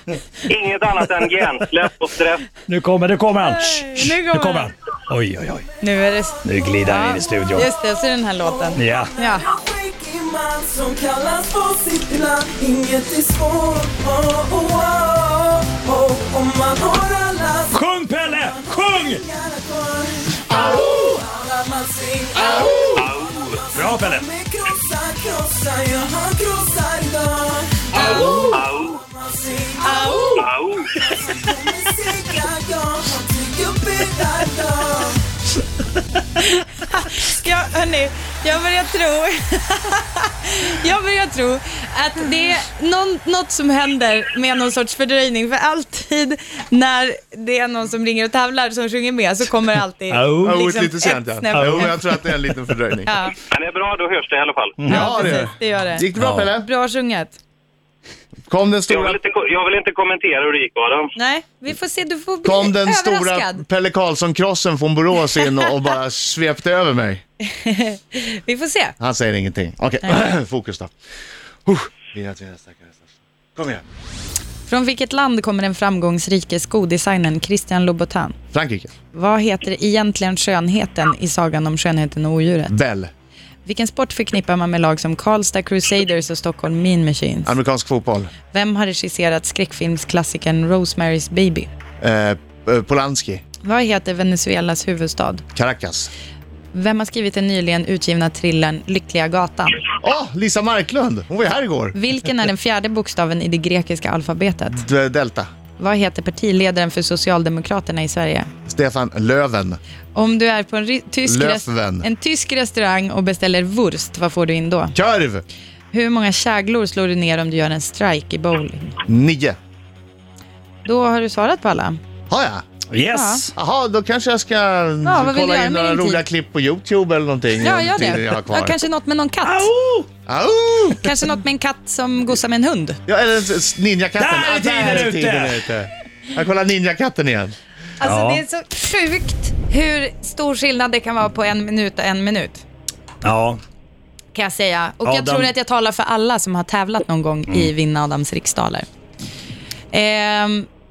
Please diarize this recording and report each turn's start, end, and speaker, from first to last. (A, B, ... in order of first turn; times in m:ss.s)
0:00.5-0:02.5 A
0:02.7-0:05.7 B
0:03.4-0:04.7 C
0:05.8-0:09.5 C
0:06.4-0:07.7 D
0:06.4-0:07.7 B
0:08.3-0:35.2 D
0:08.8-0:09.1 B
0:17.7-0:19.2 B
0:20.5-0:20.9 E
0:22.4-0:23.0 E
0:23.0-0:23.7 A
0:23.7-0:24.3 B
0:27.9-0:28.6 E
0:28.1-0:29.0 A
0:29.8-0:30.5 C
0:30.4-0:30.9 A
0:36.4-0:51.9 C
0:50.1-0:50.6 B
0:50.4-0:53.1 E
0:51.6-0:51.9 B
0:53.1-0:53.4 C
0:53.5-0:54.8 A
0:54.8-0:55.4 B
0:54.9-0:56.7 E
0:54.9-0:57.4 C
0:56.2-0:56.5 B
0:58.5-0:59.2 E
0:58.9-1:01.1 A
1:01.2-1:03.6 C
1:02.4-1:07.2 E
1:05.4-1:05.7 C
1:07.6-1:09.0 C
1:09.0-1:10.9 E
1:11.7-1:13.8 E
1:14.7-1:18.4 C
1:18.5-1:18.9 E
1:19.1-1:22.7 C
1:22.7-1:23.1 E
1:23.6-1:27.6 C
1:27.5-1:28.3 E
1:28.5-1:31.7 C
1:32.0-1:33.4 E
1:33.6-1:35.4 C
1:35.6-1:36.1 E
1:36.7-1:39.8 C
1:40.0-1:42.0 E
1:41.9-1:44.8 C
1:44.7-1:45.5 E
1:45.8-1:48.5 C
1:48.7-1:49.8 E
1:50.2-1:54.9 C
1:51.3-1:52.1 E
1:55.0-1:55.4 E
1:55.9-1:59.0 C
1:59.1-1:59.6 E
2:00.8-2:02.0 C
2:02.3-2:02.6 E
2:02.9-2:03.5 B
2:03.1-2:03.4 C
2:03.6-2:08.8 E
2:05.0-2:06.2 C
2:07.6-2:09.7 C
2:09.4-2:10.1 B
2:10.3-2:11.1 E
2:11.0-2:13.0 C
2:13.1-2:17.6 E
2:14.2-2:15.7 B
2:18.0-2:22.6 C
2:18.0-2:18.4 B
2:23.2-2:23.6 B
2:24.3-2:28.9 C
2:25.0-2:25.5 B
2:29.9-2:30.7 C